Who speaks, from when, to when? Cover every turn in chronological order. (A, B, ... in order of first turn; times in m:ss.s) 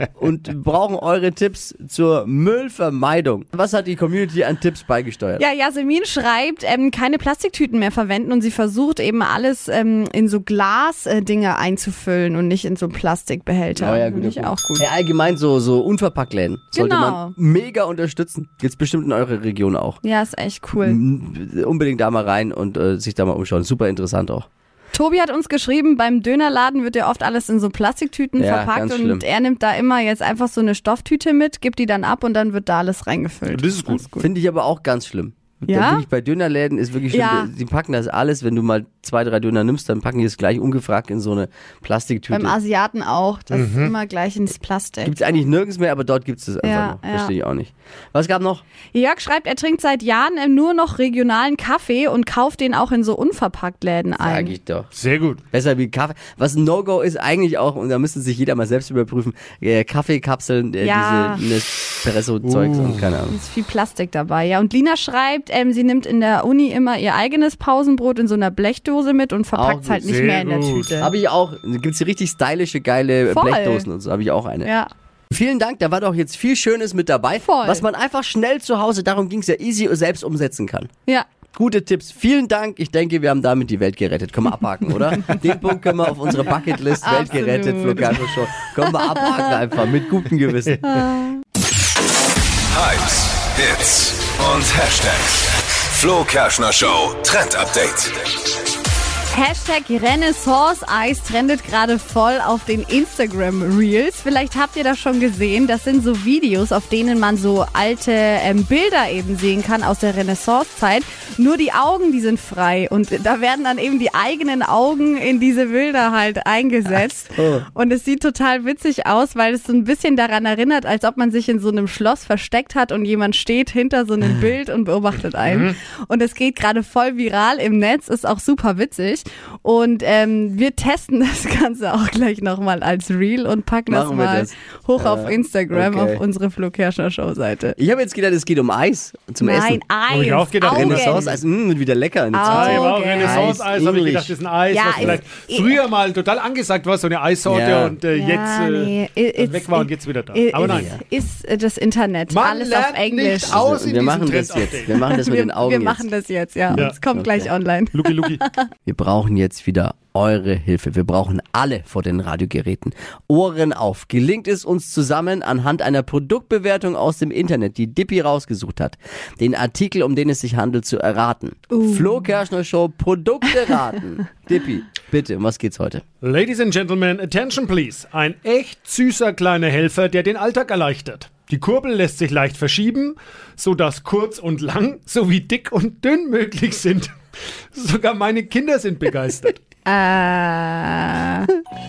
0:00.2-0:05.4 A
0:05.4-0:14.9 B
0:13.8-0:20.0 A
0:16.7-0:17.4 B
0:20.0-0:21.0 B
0:20.8-0:24.5 A
0:24.9-0:34.3 B
0:28.4-0:29.2 A
0:33.5-0:34.1 C
0:34.2-0:42.6 A
0:35.7-0:36.0 B
0:37.1-0:37.5 B
0:42.3-0:45.2 B
0:43.5-0:43.9 C
0:45.0-0:48.6 A
0:46.6-0:47.3 B
0:48.9-0:54.5 B
0:54.2-0:54.9 A
0:54.9-0:55.4 C
0:55.5-1:03.4 A
1:00.8-1:01.4 B
1:02.4-1:03.2 C
1:03.3-1:11.1 B
1:09.5-1:10.1 A
1:10.0-1:10.9 C
1:11.0-1:14.7 A
1:13.3-1:13.9 B
1:14.6-1:14.9 B
1:15.3-1:20.9 A
1:17.4-1:17.8 B
1:21.6-1:30.9 A
1:27.0-1:28.3 B
1:28.8-1:29.4 B
1:30.8-1:31.4 B
1:32.7-1:38.2 D
1:39.3-2:17.8 B
1:57.4-1:57.6 A
2:05.5-2:05.7 C
2:13.9-2:16.2 A
2:17.8-2:19.8 A
2:19.4-2:21.2 B
2:20.1-2:21.4 C
2:20.6-2:24.3 A
2:22.3-2:23.6 B
2:22.4-2:31.0 C
2:24.7-2:25.8 B
2:25.0-2:25.2 A
2:27.5-2:28.0 A
2:28.1-2:33.6 B
2:30.6-2:31.0 A
2:32.3-2:35.0 C
2:33.4-2:36.1 A
2:34.9-2:38.7 B
2:36.7-2:37.5 A
2:37.9-2:38.4 C
2:38.9-2:56.0 A
2:51.7-2:52.2 B
2:56.2-3:07.1 C
3:07.7-3:09.6 C
3:09.8-3:11.5 B